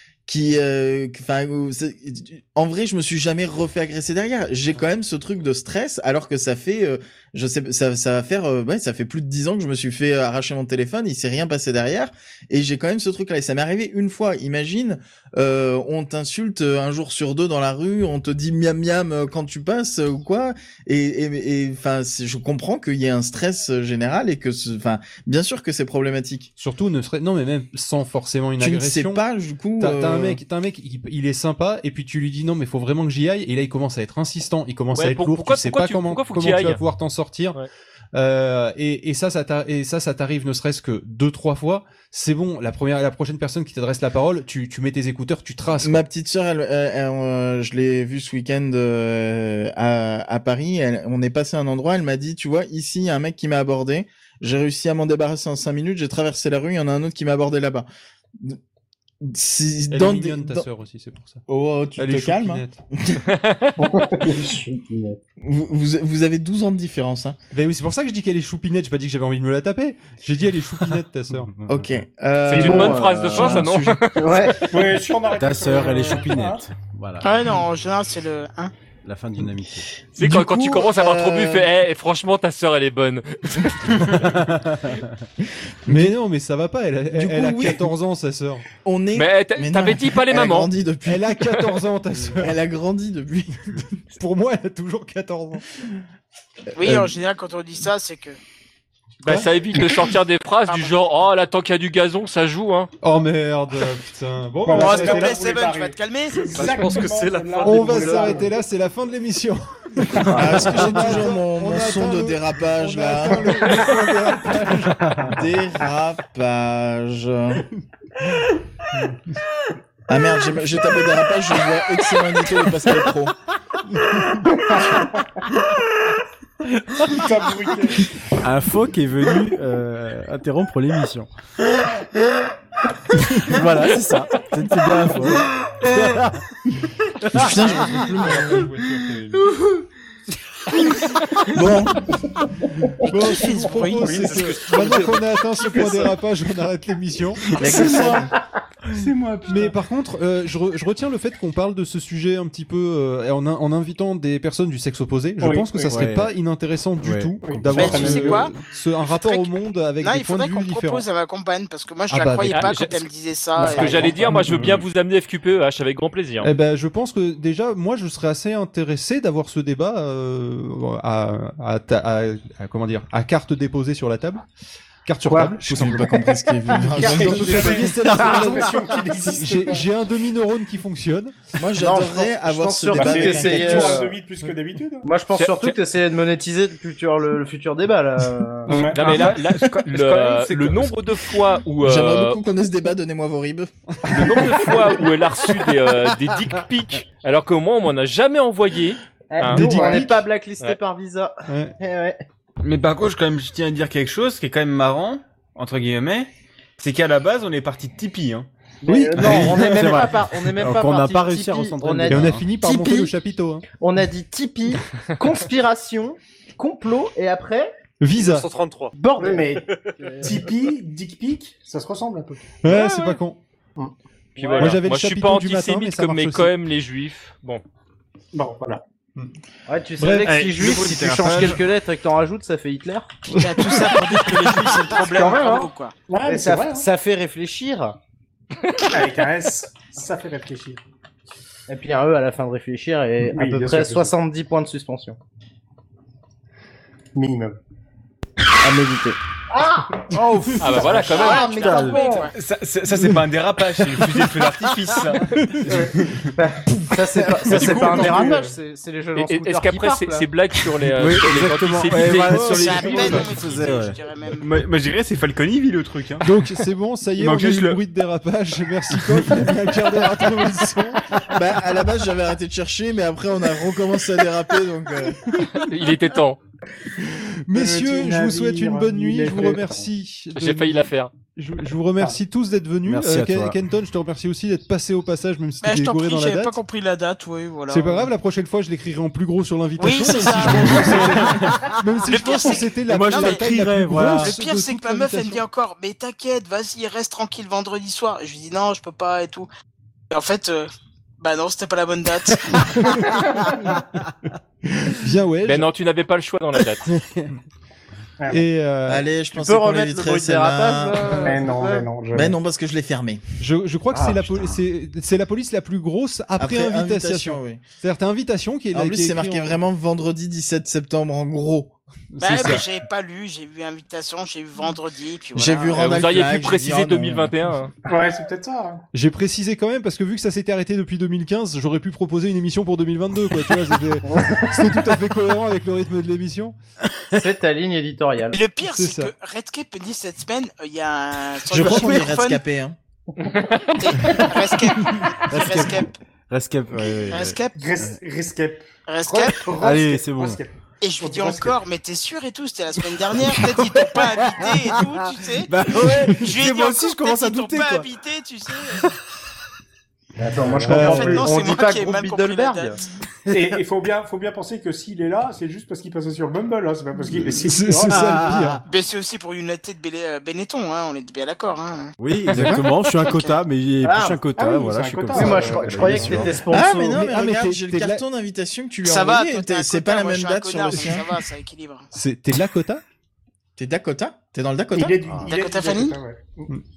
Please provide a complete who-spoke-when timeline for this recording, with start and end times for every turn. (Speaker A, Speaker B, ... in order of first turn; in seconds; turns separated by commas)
Speaker A: 0.3-26.5, Speaker B: 26.6-29.2, Speaker A: 28.6-30.4, Speaker B: 29.8-37.6, Speaker C: 34.9-36.8, Speaker B: 38.1-46.0, Speaker A: 45.8-57.9, Speaker A: 59.2-60.6, Speaker B: 59.9-61.4, Speaker A: 61.5-63.2, Speaker B: 62.0-62.8, Speaker C: 63.2-63.8, Speaker D: 63.8-65.2, Speaker A: 65.4-67.4, Speaker B: 67.5-71.5, Speaker E: 71.3-71.9, Speaker A: 71.7-73.1, Speaker C: 72.5-74.5, Speaker D: 72.5-74.7, Speaker F: 74.7-76.7, Speaker E: 75.3-77.3, Speaker G: 77.2-78.7, Speaker E: 79.0-79.8, Speaker C: 80.1-84.0, Speaker A: 80.2-81.7, Speaker E: 84.3-85.1, Speaker A: 85.9-86.1, Speaker B: 85.9-88.6, Speaker A: 87.1-87.8, Speaker A: 88.8-91.3, Speaker C: 89.1-90.7, Speaker B: 91.0-92.5, Speaker A: 92.2-93.5, Speaker B: 93.7-95.6, Speaker G: 96.7-98.4, Speaker A: 96.8-97.1, Speaker C: 99.2-102.9, Speaker G: 100.7-101.0, Speaker B: 103.0-105.5, Speaker F: 104.6-108.5, Speaker G: 104.7-106.8, Speaker H: 106.5-108.5, Speaker B: 107.6-115.4, Speaker A: 110.3-113.8, Speaker D: 110.4-110.6, Speaker A: 115.3-117.7, Speaker A: 120.1-123.3, Speaker F: 124.5-125.4, Speaker F: 127.1-128.1, Speaker E: 128.4-131.3, Speaker E: 133.4-136.4, Speaker A: 137.3-138.7, Speaker B: 137.6-139.3, Speaker A: 141.5-141.9, Speaker B: 143.0-147.5, Speaker G: 143.1-145.1, Speaker F: 143.3-145.1, Speaker D: 145.6-146.1, Speaker D: 147.6-148.4, Speaker E: 147.6-148.1, Speaker A: 147.8-148.2, Speaker I: 148.9-149.7, Speaker B: 149.4-161.0, Speaker F: 155.4-156.1, Speaker E: 155.8-156.3, Speaker E: 157.0-158.6, Speaker F: 157.4-158.3, Speaker G: 157.7-164.4, Speaker B: 162.1-162.9, Speaker C: 162.5-163.0, Speaker C: 163.6-166.5, Speaker B: 164.3-164.8, Speaker E: 164.5-164.8, Speaker B: 166.4-174.4, Speaker B: 175.0-176.1, Speaker D: 175.2-175.6, Speaker A: 175.6-178.2, Speaker D: 176.1-177.0, Speaker F: 176.7-179.9, Speaker B: 176.8-178.8, Speaker E: 177.0-178.3, Speaker D: 178.3-178.7, Speaker B: 179.4-181.3, Speaker A: 181.6-184.1, Speaker D: 181.7-184.2, Speaker F: 182.9-185.1, Speaker D: 185.0-188.8, Speaker C: 185.3-185.8, Speaker F: 188.7-189.2, Speaker C: 188.7-192.4, Speaker I: 188.8-190.9, Speaker A: 191.8-194.6, Speaker C: 194.0-200.0, Speaker D: 199.3-202.2, Speaker B: 199.4-200.2, Speaker B: 201.5-201.7, Speaker I: 202.6-208.5, Speaker D: 208.8-213.2, Speaker E: 208.9-212.5, Speaker B: 212.1-213.6, Speaker D: 213.7-217.7, Speaker B: 218.0-218.5, Speaker H: 218.2-218.9, Speaker D: 218.9-220.5, Speaker F: 219.2-219.7, Speaker F: 220.2-222.5, Speaker B: 222.6-223.4, Speaker C: 222.7-223.2, Speaker F: 223.8-224.4, Speaker D: 224.4-224.8, Speaker C: 224.4-227.6, Speaker B: 224.6-226.5, Speaker F: 228.3-228.8, Speaker D: 229.7-233.1, Speaker B: 230.0-231.6, Speaker I: 230.3-230.6, Speaker E: 230.6-231.5, Speaker B: 233.3-234.8, Speaker G: 233.4-235.9, Speaker D: 234.9-235.7, Speaker F: 236.1-236.9, Speaker D: 236.2-238.0, Speaker F: 238.9-240.8, Speaker D: 241.7-245.2, Speaker F: 243.3-244.1, Speaker F: 247.1-247.6, Speaker D: 248.6-252.3, Speaker C: 250.6-251.5, Speaker E: 250.7-251.0, Speaker G: 250.7-252.3, Speaker I: 252.3-255.8, Speaker B: 255.4-255.7, Speaker E: 255.6-256.1, Speaker D: 255.7-260.3, Speaker E: 257.3-258.3, Speaker F: 258.1-258.5, Speaker C: 259.1-263.1, Speaker E: 260.9-263.9, Speaker G: 262.3-264.5, Speaker I: 264.4-266.3, Speaker B: 266.2-271.2, Speaker I: 267.2-267.8, Speaker I: 269.0-269.3, Speaker A: 271.3-275.2, Speaker C: 275.5-276.4, Speaker B: 277.4-286.6, Speaker F: 277.5-279.9, Speaker C: 280.4-281.1, Speaker E: 282.8-283.6, Speaker G: 285.6-288.1, Speaker B: 287.7-295.4, Speaker G: 289.8-293.5, Speaker E: 290.5-290.8, Speaker E: 291.3-291.8, Speaker E: 292.8-294.4, Speaker G: 294.0-299.5, Speaker G: 300.1-303.5, Speaker B: 302.5-303.8, Speaker B: 304.8-305.7, Speaker C: 305.4-306.9, Speaker E: 306.9-307.3, Speaker F: 308.2-308.4, Speaker B: 308.3-309.1, Speaker A: 308.9-311.2, Speaker D: 309.3-311.9, Speaker F: 311.2-312.3, Speaker A: 312.1-313.2, Speaker B: 313.4-319.6, Speaker D: 313.9-314.6, Speaker A: 316.4-317.6, Speaker A: 318.7-321.7, Speaker B: 322.1-322.6, Speaker G: 322.2-325.8, Speaker A: 325.3-327.3, Speaker C: 325.7-327.7, Speaker F: 327.9-328.8, Speaker B: 328.9-336.5, Speaker D: 334.1-334.7, Speaker D: 337.1-338.4, Speaker G: 338.3-342.4, Speaker B: 338.6-339.1, Speaker A: 341.5-342.8, Speaker C: 343.2-343.8, Speaker G: 343.8-345.9, Speaker E: 345.3-347.9, Speaker G: 347.1-347.7, Speaker F: 347.5-351.6, Speaker G: 348.9-349.8, Speaker E: 349.5-350.4, Speaker G: 350.8-358.8, Speaker E: 353.1-357.9, Speaker F: 355.8-356.1, Speaker D: 360.2-362.8, Speaker F: 360.4-361.0, Speaker B: 360.7-361.2, Speaker G: 360.8-362.8, Speaker F: 363.3-368.3, Speaker E: 367.1-368.6, Speaker B: 367.5-368.6, Speaker G: 368.7-373.4, Speaker E: 372.0-376.5, Speaker A: 372.3-372.6, Speaker D: 373.8-377.1, Speaker F: 374.4-376.3, Speaker A: 376.5-381.1, Speaker B: 376.9-378.0, Speaker G: 378.8-381.9, Speaker B: 381.9-382.8, Speaker A: 383.6-384.9, Speaker F: 384.7-386.5, Speaker E: 385.0-385.4, Speaker G: 385.3-386.0